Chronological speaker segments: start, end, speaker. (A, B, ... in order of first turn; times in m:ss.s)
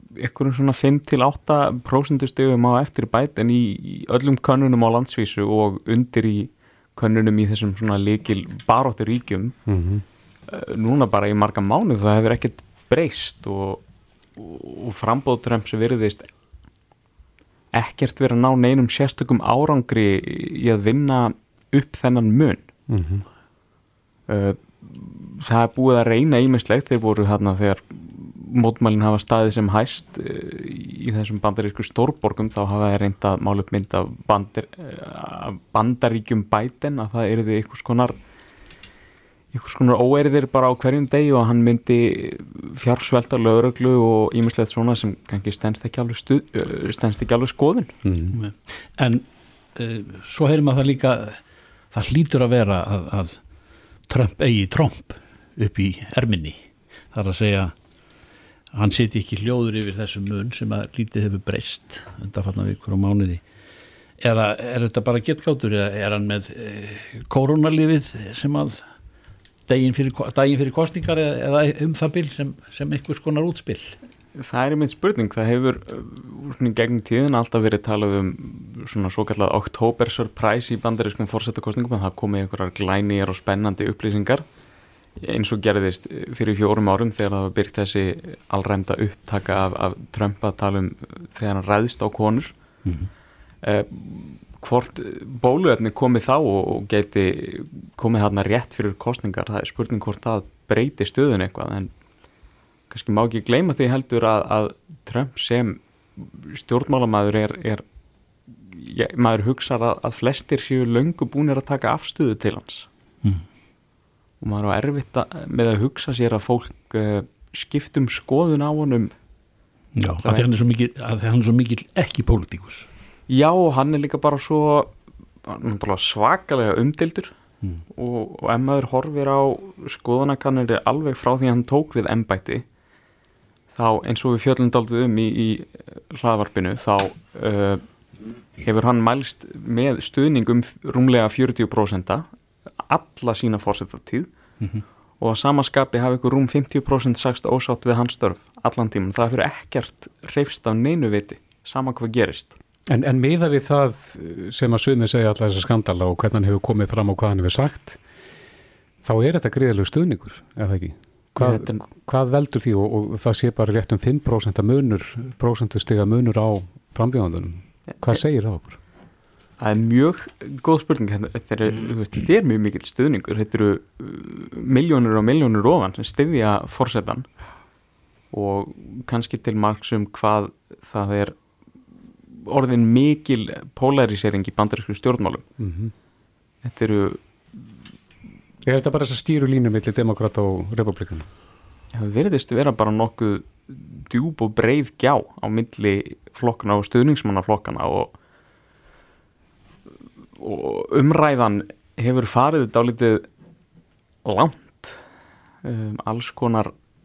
0:00.2-0:09.6 A
0:09.7-0:10.0 B
0:10.5-0:13.8 A
0:14.4-0:16.3 A
0:17.8-0:22.7 A
0:22.9-0:23.2 B
0:24.3-0:38.2 A
0:39.5-0:48.0 A
0:48.0-0:48.4 B
0:48.3-0:51.4 C
0:51.9-0:53.4 C
0:54.1-0:57.7 C
0:58.7-1:03.4 C
1:04.2-1:08.8 C
1:09.7-1:14.0 C
1:14.4-1:24.4 A
1:25.2-1:32.6 A
1:32.8-1:33.1 C
1:33.6-1:41.9 A
1:42.9-1:47.8 A
1:48.6-1:52.9 A
1:54.4-1:59.1 A
2:00.0-2:02.9 C
2:00.2-2:00.5 A
2:03.3-2:07.4 A
2:07.9-2:12.6 A
2:13.8-2:17.8 A
2:18.6-2:22.2 A
2:22.9-2:24.3 A
2:25.2-2:32.6 A
2:32.9-2:38.0 B
2:39.0-2:48.8 B
2:41.4-2:41.8 A
2:49.6-2:57.3 A
2:58.3-3:01.4 A
3:02.4-3:05.5 A
3:05.6-3:05.9 B
3:06.6-3:07.2 A
3:08.6-3:11.3 B
3:11.9-3:18.1 A
3:20.4-3:23.3 A
3:24.2-3:25.0 A
3:25.6-3:26.7 A